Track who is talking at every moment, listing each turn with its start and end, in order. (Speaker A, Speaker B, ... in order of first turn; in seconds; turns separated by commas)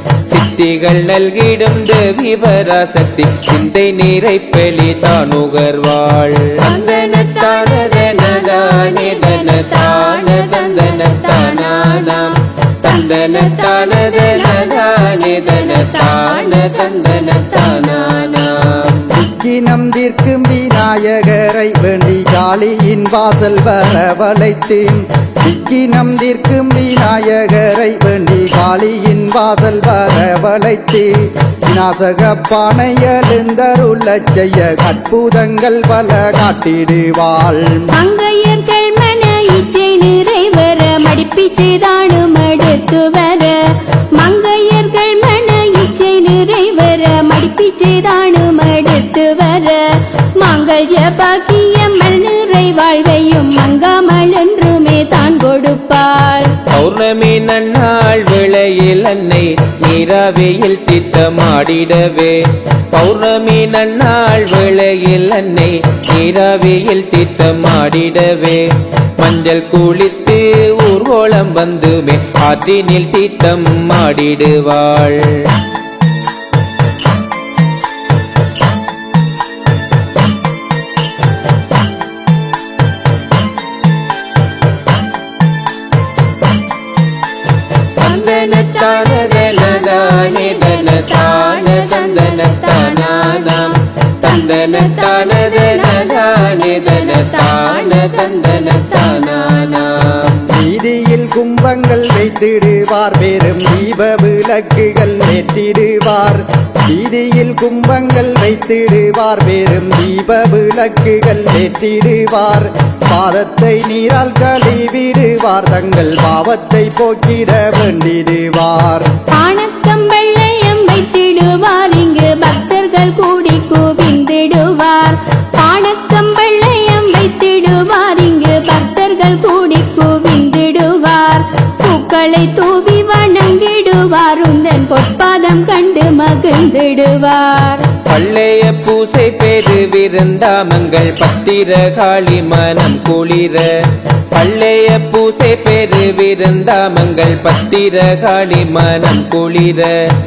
Speaker A: 0.3-19.1, Speaker B: 6.9-12.1, Speaker B: 16.7-17.2, Speaker C: 19.1-37.9, Speaker B: 37.9-56.5, Speaker A: 56.7-62.4, Speaker A: 62.9-68.6, Speaker A: 69.2-75.5, Speaker A: 88.0-100.4, Speaker B: 90.3-93.4, Speaker B: 95.2-95.7, Speaker B: 96.5-96.8, Speaker B: 98.1-99.5, Speaker C: 100.5-119.1, Speaker B: 119.3-137.9, Speaker A: 138.1-143.7, Speaker A: 144.3-150.1